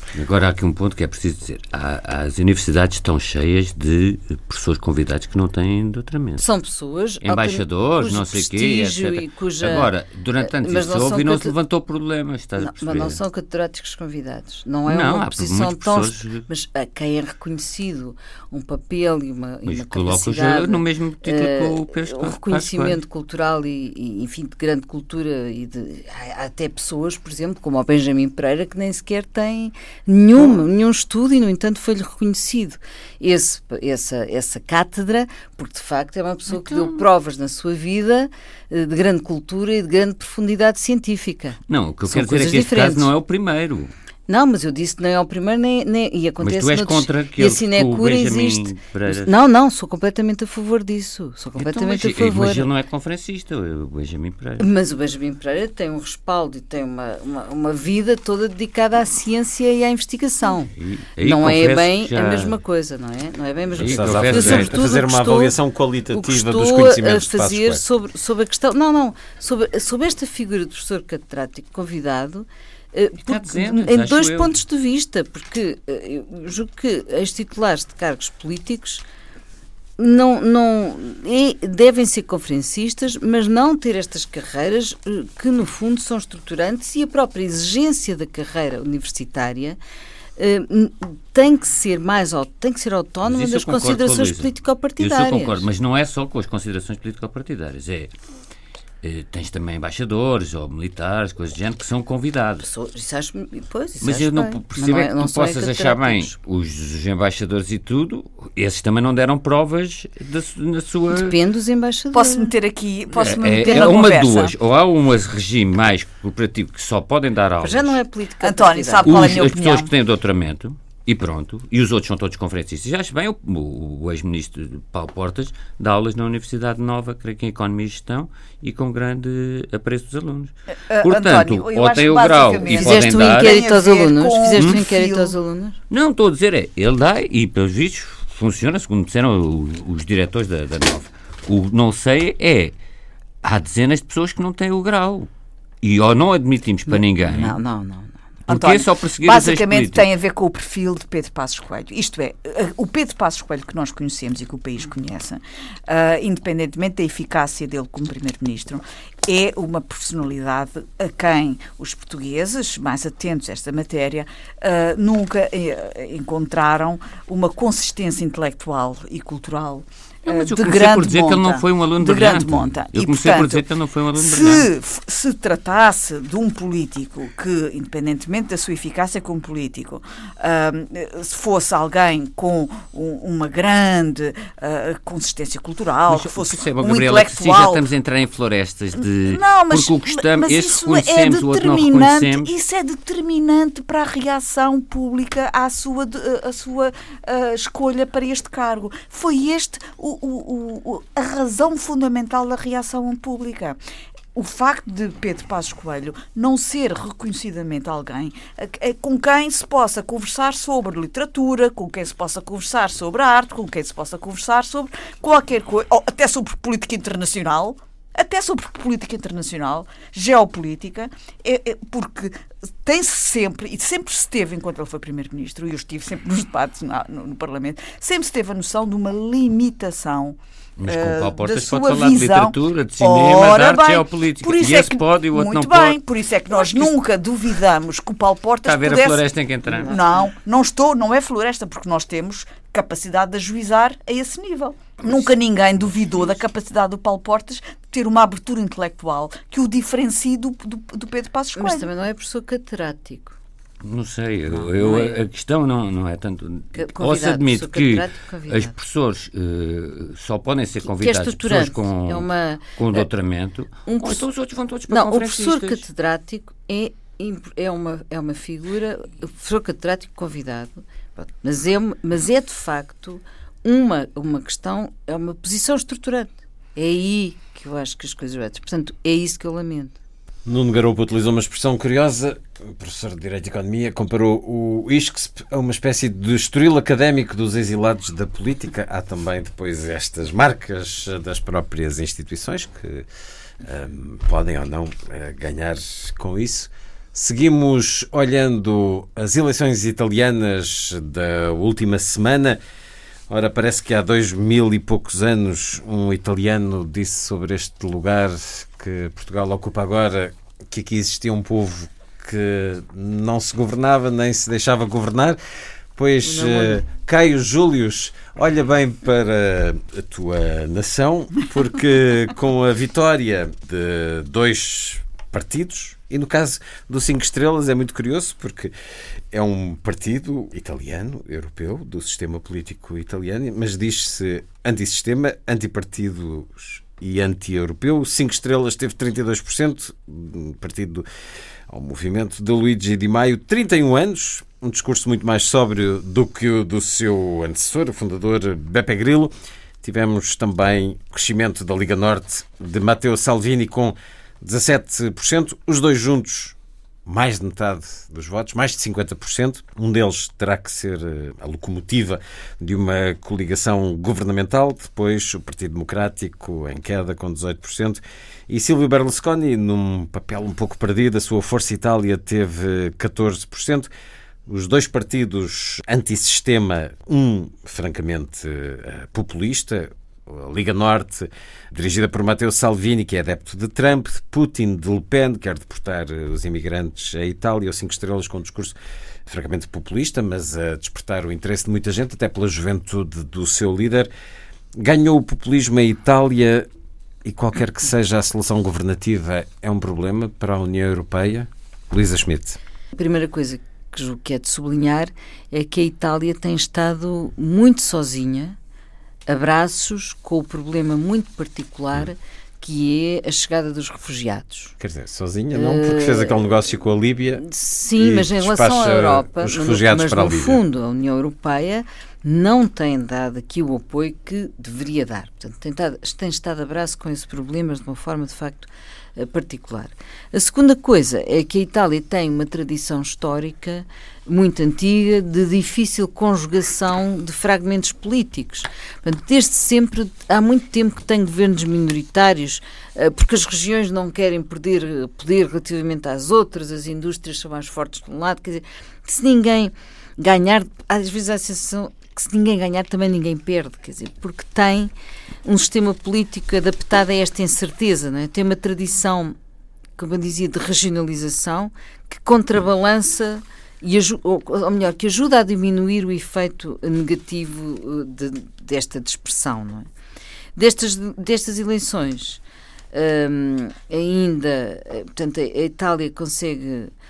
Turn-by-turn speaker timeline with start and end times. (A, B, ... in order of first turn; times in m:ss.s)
0:00.1-0:06.4 A
0:06.4-0:11.5 B
0:07.2-0:13.2 A
0:12.6-0:43.1 B
0:14.9-0:16.4 A
0:19.6-0:23.0 A
0:36.5-0:37.0 A
0:41.7-0:43.9 A
0:44.3-0:52.7 B
0:46.4-0:49.3 A
0:51.6-0:54.6 A
0:54.6-1:05.5 B
1:00.8-1:02.5 A
1:03.8-1:07.8 C
1:03.8-1:04.8 A
1:06.1-1:19.0 B
1:13.2-1:14.6 A
1:20.0-1:29.8 B
1:30.4-1:35.6 B
1:33.3-1:38.1 A
1:39.0-1:42.7 A
1:42.6-1:46.3 B
1:44.0-1:51.4 A
1:51.1-1:52.5 B
1:52.1-1:54.5 D
1:53.2-1:58.0 A
1:53.6-1:53.9 B
1:57.6-1:59.1 B
1:58.4-1:59.9 D
1:59.0-2:13.6 A
2:10.9-2:15.3 D
2:12.7-2:15.8 B
2:15.9-2:22.7 A
2:23.4-2:25.3 A
2:25.8-2:27.6 A
2:26.9-2:28.2 B
2:28.5-2:53.6 D
2:28.5-2:30.1 A
2:50.2-2:54.7 A
2:54.2-3:07.8 D
3:06.1-3:12.5 A
3:09.0-3:23.8 D
3:24.3-4:11.9 D
3:50.8-3:56.9 A
3:58.6-4:00.0 A
4:11.6-4:13.4 B
4:13.8-4:25.8 A
4:14.5-4:15.2 B
4:16.7-4:18.7 B
4:20.8-4:23.1 B
4:23.8-4:24.2 B
4:24.9-4:40.0 B
4:40.4-4:53.0 C
4:53.6-5:02.6 C
5:03.3-5:15.4 C
5:15.9-5:28.7 C
5:16.2-5:16.8 B
5:29.3-5:41.0 C
5:41.7-6:13.9 C
6:14.5-6:28.7 C
6:29.2-6:34.1 C
6:34.8-6:36.7 C
6:37.2-6:42.6 C
6:43.0-6:48.6 B
6:49.3-6:54.7 B
6:54.8-7:00.6 C
6:55.5-6:56.4 B
6:57.4-7:34.9 B
7:35.4-7:39.4 B
7:40.0-7:49.9 B
7:50.6-7:52.4 B
7:52.9-7:56.9 B